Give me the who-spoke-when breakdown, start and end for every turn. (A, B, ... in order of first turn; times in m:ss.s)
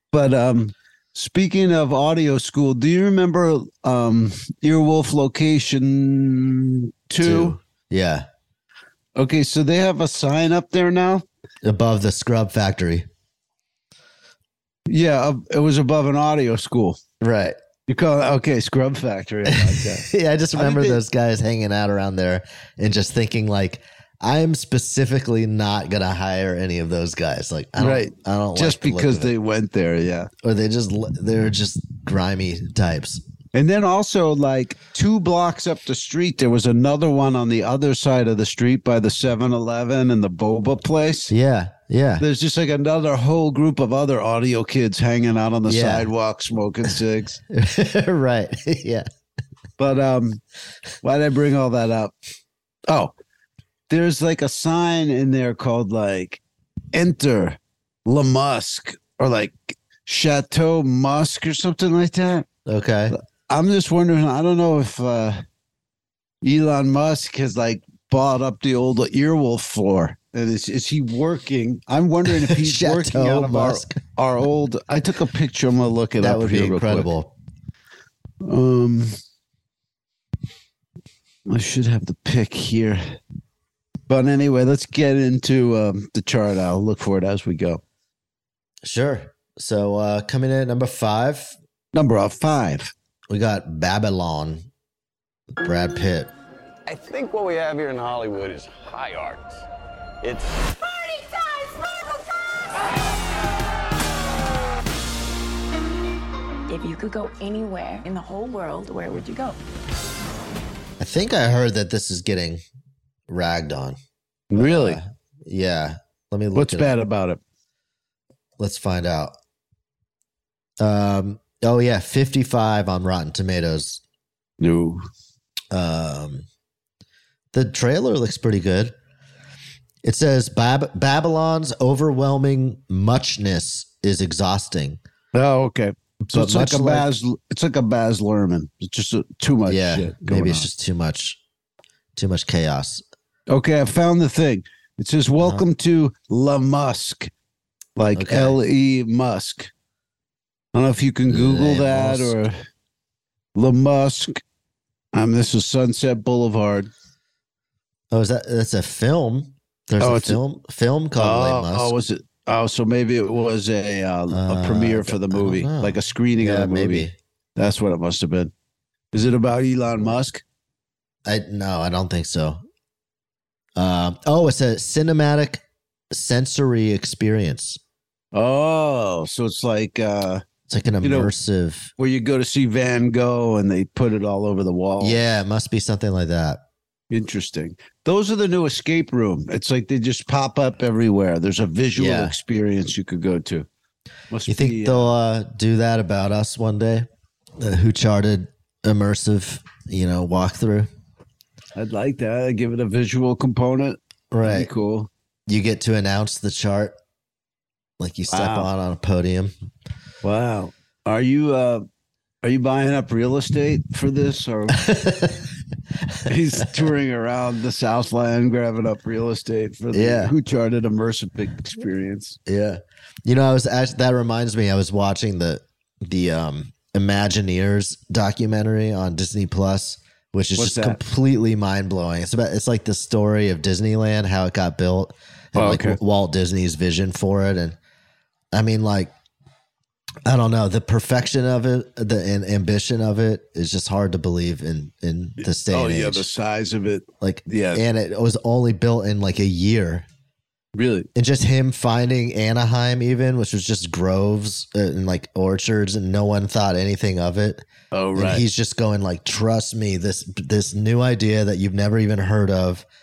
0:00.1-0:07.6 A
0:07.2-0:08.2 B
0:09.2-0:11.2 A
0:11.6-0:13.1 B
0:14.9-0:17.0 A
0:17.2-0:17.6 B
0:17.9-0:21.0 A
0:19.4-0:29.3 B
0:27.8-0:30.3 A
0:30.4-0:33.2 B
0:33.5-0:41.3 A
0:41.3-0:42.2 B
0:42.2-0:47.4 A
0:45.6-0:46.1 B
0:47.5-0:49.0 B
0:49.8-0:50.4 A
0:51.0-0:52.1 A
0:52.9-0:53.1 A
0:53.9-0:56.4 A
0:56.9-1:02.4 A
1:02.7-1:03.1 B
1:03.1-1:05.4 A
1:06.4-1:17.1 A
1:12.3-1:14.0 B
1:16.2-1:17.3 B
1:18.4-1:19.1 A
1:21.4-1:23.2 A
1:24.1-1:27.8 A
1:28.8-1:31.6 B
1:31.9-1:32.9 A
1:33.3-1:34.6 B
1:35.6-1:36.3 B
1:36.8-1:39.6 C
1:40.2-1:42.2 C
1:46.7-1:49.6 D
1:51.0-1:52.6 B
1:53.3-1:54.0 B
1:54.5-1:55.0 A
1:54.5-1:56.9 B
1:56.5-1:57.4 A
1:58.6-1:59.3 B
2:00.8-2:04.0 B
2:04.6-2:05.0 A
2:05.7-2:06.4 B
2:07.5-2:08.9 B
2:10.0-2:15.0 B
2:15.3-2:20.7 A
2:16.3-2:17.1 B
2:19.6-2:21.4 B
2:22.2-2:23.0 B
2:23.5-2:27.3 A
2:28.0-2:29.7 A
2:28.1-2:28.6 B
2:30.7-2:32.5 A
2:31.3-2:32.4 B
2:33.6-2:34.4 A
2:35.1-2:36.9 A
2:38.1-2:41.9 B
2:40.0-2:40.4 A
2:41.2-2:48.5 A
2:44.3-2:47.1 B
2:49.1-2:50.4 A
2:51.2-2:52.6 B
2:53.8-2:57.8 B
2:58.3-3:00.4 A
3:00.7-3:01.9 B
3:01.0-3:01.3 A
3:02.0-3:05.2 A
3:05.0-3:06.6 B
3:07.1-3:13.7 A
3:12.0-3:12.3 B
3:14.3-3:15.1 A
3:14.5-3:17.1 B
3:17.6-3:20.9 B
3:21.8-3:25.1 A
3:24.3-3:24.7 B
3:25.5-3:26.9 B
3:28.0-3:29.5 B
3:28.3-3:28.7 A
3:30.2-3:31.8 A
3:32.4-3:34.8 A
3:34.7-3:35.5 B
3:36.1-3:36.9 B
3:36.3-3:42.4 A
3:39.9-3:40.3 B
3:42.4-3:57.8 B
3:50.6-3:51.0 A
3:55.5-3:56.0 A
3:58.5-3:59.1 B
4:00.2-4:06.2 B
4:05.4-4:07.8 A
4:07.2-4:10.0 B
4:10.8-4:11.1 A
4:11.1-4:17.6 B
4:17.9-4:18.4 A
4:18.2-4:22.8 B